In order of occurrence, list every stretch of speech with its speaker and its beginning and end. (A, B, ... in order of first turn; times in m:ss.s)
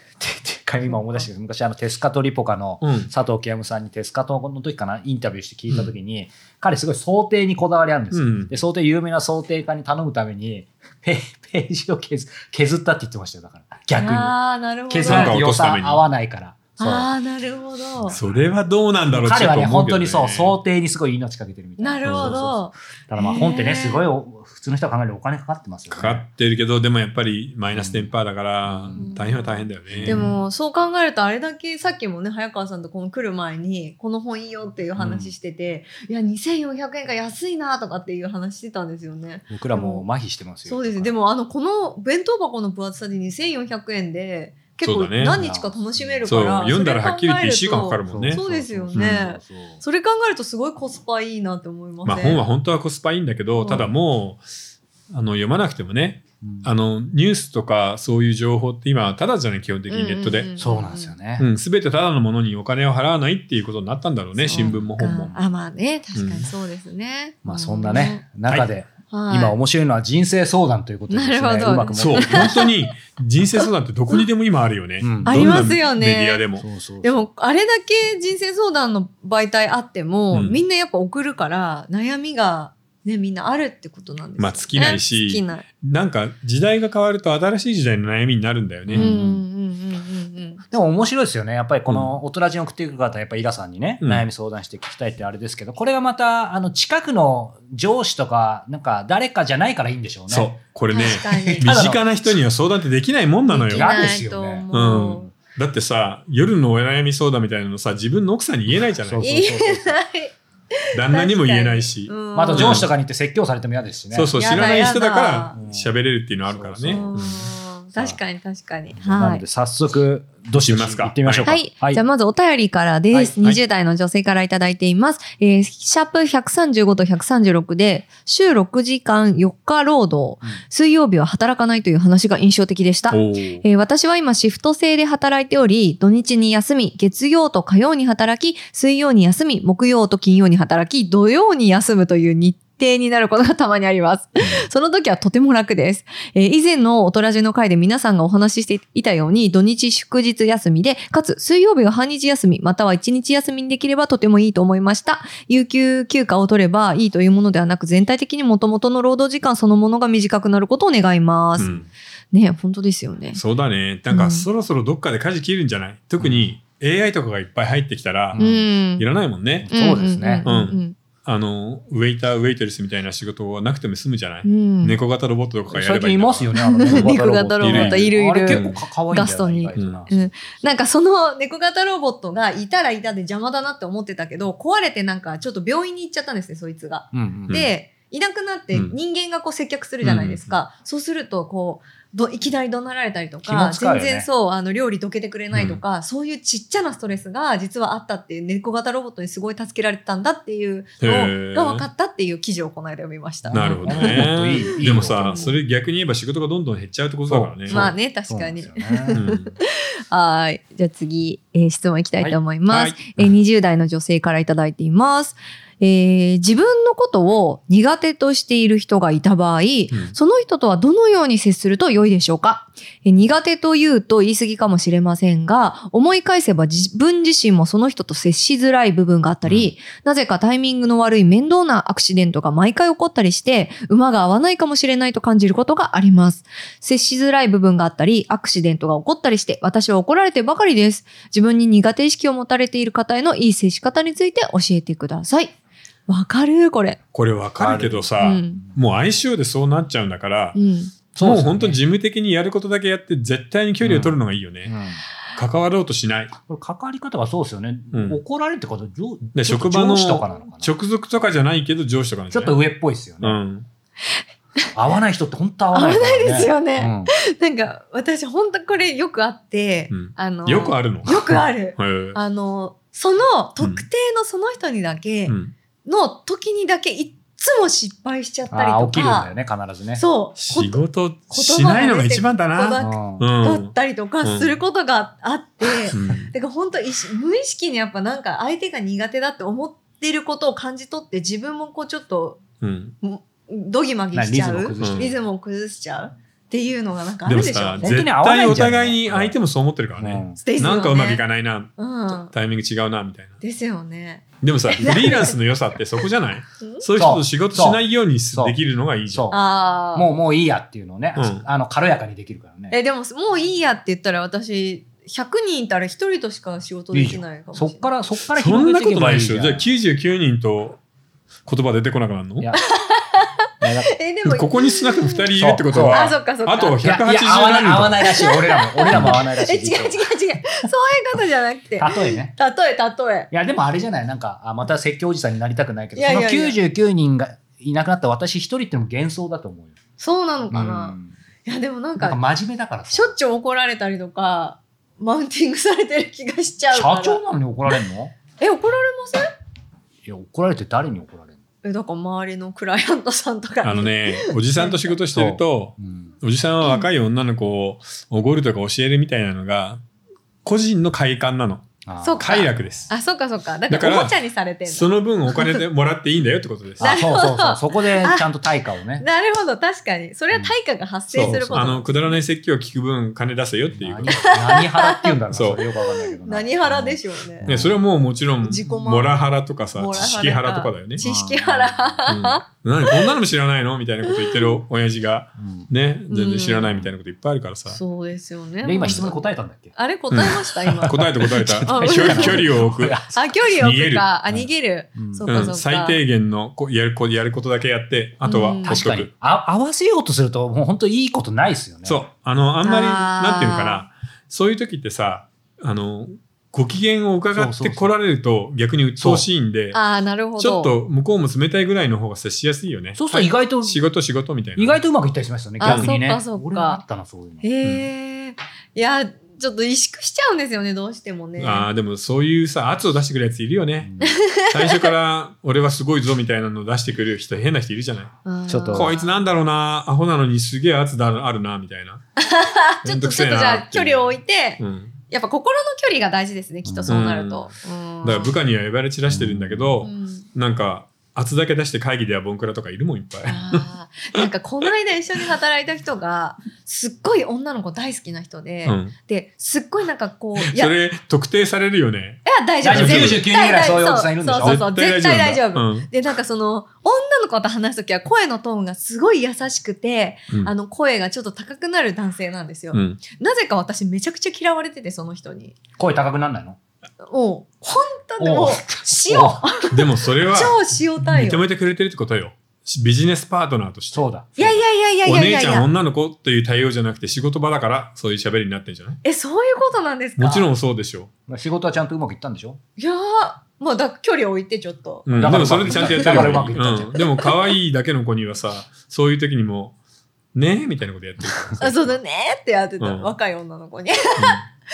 0:00.2-0:14.4 A
0:00.8-0:01.3 B
0:02.8-0:03.1 C
0:08.1-0:08.6 C
0:13.9-0:15.4 B
0:14.9-0:17.1 A
0:15.0-0:16.0 C
0:16.8-0:18.2 B
0:18.0-0:18.4 A
0:18.1-0:20.6 C
0:19.1-0:26.2 A
0:21.8-0:24.1 B
0:22.0-0:22.4 C
0:25.9-0:30.4 C
0:27.7-0:28.1 A
0:28.6-0:29.1 A
0:28.9-0:40.0 B
0:29.9-0:30.4 A
0:35.0-0:35.3 A
0:39.5-0:41.2 A
0:40.6-0:52.4 B
0:44.8-0:45.4 C
0:45.3-0:46.5 A
0:46.2-0:48.4 C
0:48.0-0:49.8 A
0:48.9-0:49.2 C
0:52.0-0:54.4 C
0:53.6-0:53.9 B
0:55.1-1:00.5 C
0:56.4-0:56.7 A
0:59.9-1:01.1 B
1:00.6-1:01.5 A
1:01.4-1:05.4 C
1:04.4-1:08.2 B
1:04.6-1:04.9 A
1:06.1-1:06.5 C
1:07.4-1:12.6 A
1:09.1-1:09.6 B
1:11.1-1:12.7 B
1:11.9-1:16.6 C
1:15.0-1:15.7 A
1:15.2-1:16.4 B
1:16.6-1:17.3 A
1:17.0-1:25.6 B
1:20.3-1:20.6 C
1:24.4-1:29.1 C
1:28.9-1:29.4 A
1:29.0-1:30.6 B
1:30.7-1:42.2 A
1:31.9-1:32.1 C
1:34.0-1:34.2 C
1:40.3-1:44.2 C
1:40.9-1:41.7 B
1:43.5-1:45.3 B
1:43.7-1:44.7 A
1:44.7-1:49.3 C
1:49.0-1:50.0 A
1:49.2-1:50.3 B
1:50.9-1:52.9 B
1:50.9-1:52.9 C
1:52.3-1:54.4 A
1:54.1-1:57.5 C
1:54.3-1:55.6 B
1:55.5-1:57.2 A
1:56.8-1:59.4 B
1:57.9-1:58.2 A
1:59.0-2:02.0 A
2:00.6-2:01.5 C
2:01.4-2:41.8 B
2:13.1-2:13.6 C
2:41.6-2:41.9 A
2:41.6-2:41.9 C
2:42.3-2:43.4 B
2:43.3-2:49.7 C
2:44.1-2:44.5 B
2:46.2-2:46.5 A
2:48.3-2:48.7 A
2:48.4-2:49.0 B
2:49.6-2:50.5 A
2:49.7-2:51.0 B
2:50.4-2:58.8 C
2:54.4-2:55.0 B
2:55.7-3:00.8 A
2:56.6-3:24.6 B
2:59.7-3:00.0 C
3:07.1-3:07.6 A
3:10.0-3:10.5 C
3:13.4-3:14.3 A
3:15.5-3:15.8 C
3:21.0-3:21.9 C
3:23.4-3:25.6 A
3:23.5-3:27.9 C
3:27.3-3:29.2 A
3:27.7-4:05.5 B
3:29.1-3:29.6 C
3:32.2-3:33.2 C
3:39.9-3:40.2 C
4:06.1-4:07.0 B
4:07.1-4:10.6 C
4:07.6-4:08.2 A
4:08.2-4:08.7 B
4:10.5-4:10.9 B
4:11.1-4:11.8 A
4:11.2-4:14.7 C
4:13.8-4:15.0 A
4:15.3-4:16.3 C
4:16.4-4:20.7 A
4:17.9-4:18.2 C
4:19.3-4:22.6 C
4:22.3-4:23.4 A
4:23.2-4:23.7 C
4:24.7-4:27.1 A
4:25.7-4:39.3 B
4:29.9-4:32.2 C
4:33.6-4:33.8 C
4:35.3-4:35.5 C
4:38.5-4:40.0 A
4:40.0-4:52.4 B
4:40.4-4:44.6 C
4:42.8-4:43.2 A
4:45.9-4:46.3 C
4:52.6-4:53.0 C
4:53.0-4:58.0 B
4:54.1-4:55.2 A
4:54.8-4:55.2 C
4:57.2-5:03.4 C
4:57.8-4:59.4 A
5:00.0-5:00.4 A
5:00.4-5:01.2 B
5:01.8-5:02.3 B
5:03.4-5:05.3 B
5:04.4-5:09.3 C
5:07.0-5:12.8 A
5:09.3-5:10.1 B
5:11.2-5:11.4 C
5:12.7-5:17.8 B
5:16.9-5:19.7 A
5:18.3-5:20.8 C
5:21.5-5:22.5 C
5:22.7-5:25.3 B
5:23.6-5:24.0 A
5:24.2-5:28.2 C
5:25.4-5:26.1 A
5:25.8-5:26.8 B
5:26.8-5:30.0 A
5:28.0-5:33.3 B
5:28.9-5:29.2 C
5:31.8-5:32.3 A
5:33.3-5:39.7 A
5:35.9-5:36.6 B
5:40.0-5:42.2 B
5:40.5-5:41.2 A
5:42.0-5:43.2 A
5:42.9-5:47.7 B
5:46.7-5:48.1 A
5:48.4-5:49.3 B
5:50.0-5:51.4 A
5:51.6-5:55.0 B
5:53.6-5:59.8 C
5:55.1-5:56.1 A
5:56.6-5:56.9 B
6:00.4-6:01.7 C
6:01.8-6:02.4 A
6:02.0-6:05.6 B
6:02.2-6:02.9 C
6:03.7-6:04.1 C
6:04.6-6:07.0 C
6:06.8-6:09.0 A
6:06.8-6:08.3 B
6:09.0-6:12.2 B
6:11.1-6:14.3 C
6:11.2-6:11.8 A
6:13.7-6:17.8 A
6:14.1-6:15.2 B
6:15.3-6:15.6 C
6:15.8-6:17.6 B
6:17.4-6:21.0 C
6:18.4-6:19.2 B
6:19.7-6:23.1 B
6:21.0-6:22.1 A
6:22.1-6:27.8 C
6:24.0-6:24.6 B
6:25.4-6:25.7 A
6:26.1-6:26.8 B
6:27.7-6:31.0 B
6:28.6-6:29.7 A
6:30.1-6:34.1 C
6:30.8-6:33.2 A
6:31.6-6:36.0 B
6:34.3-6:35.3 A
6:35.2-6:39.1 C
6:38.2-6:38.8 B
6:38.6-6:42.0 A
6:41.8-6:49.8 C
6:42.6-6:43.9 B
6:47.3-6:47.9 A
6:49.0-6:49.3 A
6:49.7-6:50.7 B
6:50.4-6:54.8 C
6:52.9-6:53.9 A
6:54.6-6:57.5 A
6:55.6-6:56.8 B
6:55.6-6:55.9 C
6:57.4-7:01.7 B
7:01.4-7:08.1 C
7:03.8-7:04.2 A
7:04.0-7:04.9 B
7:08.2-7:09.2 B
7:08.5-7:08.9 A
7:08.7-7:12.0 C
7:12.2-7:18.4 B
7:12.8-7:14.9 C
7:16.6-7:17.1 A
7:16.9-7:17.5 C
7:18.0-7:24.3 C
7:19.1-7:19.8 A
7:19.8-7:20.3 B
7:23.2-7:30.8 B
7:28.6-7:28.9 C
7:30.4-7:33.2 C
7:32.2-7:45.6 B
7:32.6-7:34.6 A
7:34.4-7:35.9 C
7:42.7-7:43.0 C
7:45.8-7:46.6 A
7:47.0-7:51.4 B
7:48.2-7:49.4 A
7:49.7-7:59.0 C
7:53.9-7:54.3 A
7:54.4-7:55.7 B
7:59.0-8:00.5 B
8:00.2-8:01.1 C
8:01.3-8:02.6 A
8:02.8-8:06.4 B
8:05.0-8:09.8 C
8:05.2-8:07.0 A
8:07.0-8:07.3 B
8:10.3-8:12.0 C
8:11.6-8:14.4 B
8:12.8-8:13.1 C
8:14.2-8:14.4 C